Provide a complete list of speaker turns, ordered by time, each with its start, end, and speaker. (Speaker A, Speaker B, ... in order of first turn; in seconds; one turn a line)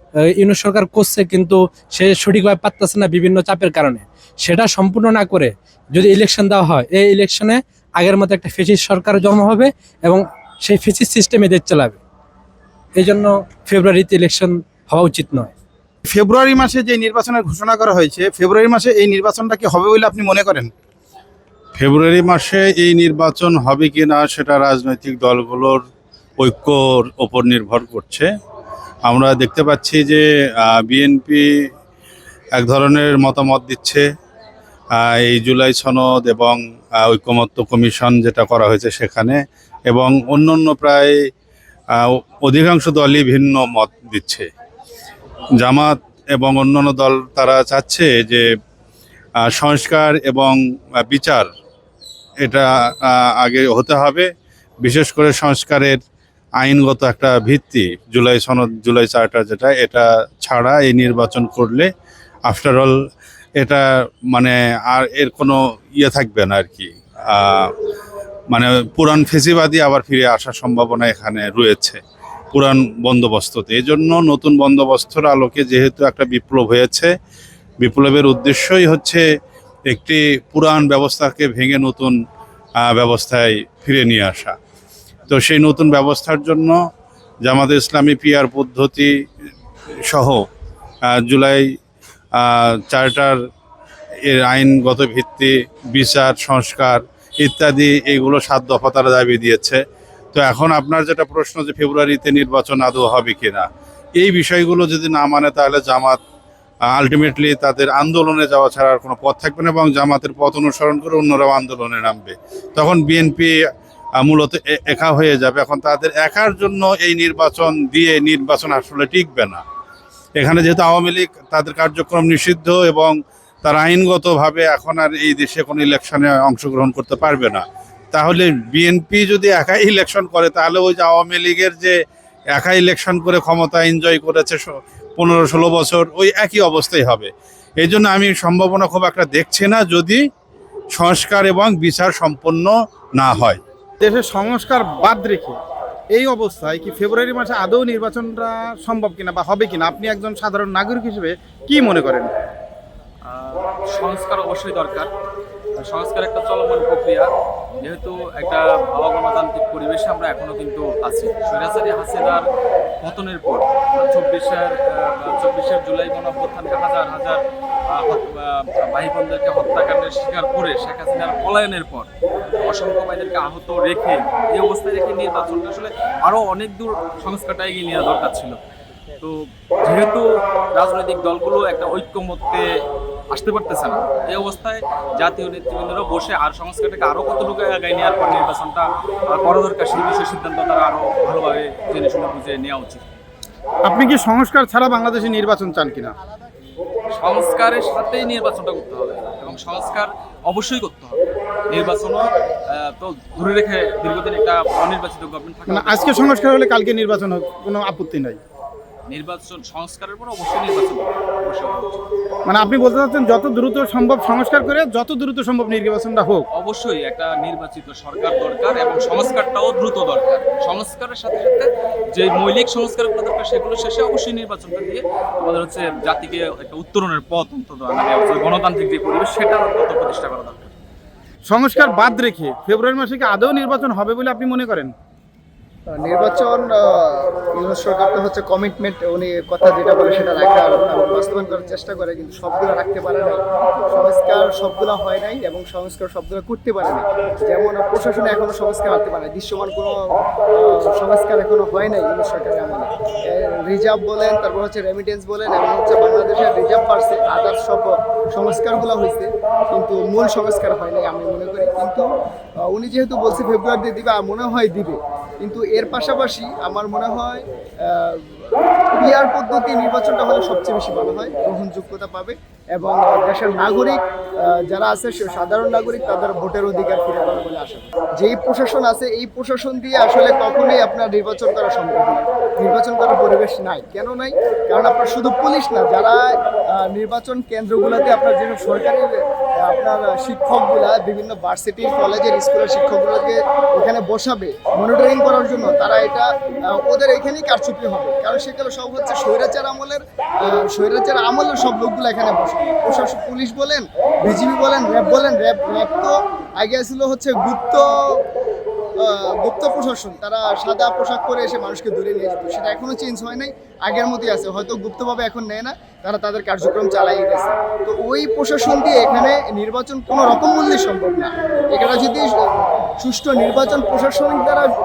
Speaker A: 0.3-12.0
Speaker A: 13.0-15.5
Speaker B: 16.1-20.7
Speaker C: 21.8-25.8
Speaker C: 26.4-28.3
Speaker C: 29.1-31.5
Speaker C: 32.6-34.1
Speaker C: 35.0-41.2
Speaker C: 42.0-44.5
Speaker C: 45.6-48.4
Speaker C: 49.5-50.6
Speaker C: 51.1-51.5
Speaker C: 52.4-54.3
Speaker C: 54.8-56.0
Speaker C: 56.6-61.9
Speaker C: 62.5-63.0
Speaker C: 63.6-67.7
Speaker C: 68.5-72.0
Speaker C: 72.5-77.1
Speaker C: 77.8-79.2
Speaker C: 79.9-82.2
Speaker C: 82.8-84.5
Speaker C: 85.3-86.8
Speaker C: 87.5-89.1
Speaker C: 90.1-90.5
Speaker C: 91.1-91.7
Speaker C: 92.4-93.4
Speaker C: 94.3-99.8
Speaker C: 100.3-103.7
Speaker C: 104.2-106.2
Speaker C: 106.9-113.5
Speaker C: 114.2-119.6
Speaker C: 120.4-131.9
Speaker C: 132.6-140.2
Speaker C: 140.9-143.6
Speaker B: 144.0-145.6
Speaker B: 146.1-152.3
Speaker D: 153.2-155.1
Speaker D: 155.8-162.5
Speaker D: 163.0-178.6
Speaker D: 179.2-182.8
Speaker D: 183.3-193.0
Speaker B: 193.8-196.2
Speaker D: 197.1-206.2
Speaker B: 205.7-208.4
Speaker D: 209.1-212.0
Speaker B: 212.5-216.5
Speaker D: 216.6-230.7
Speaker B: 231.5-234.9
Speaker E: 235.9-250.0
Speaker E: 250.5-262.0
Speaker E: 262.7-268.2
Speaker E: 268.9-307.9
Speaker E: 309.0-322.3
Speaker E: 323.0-324.7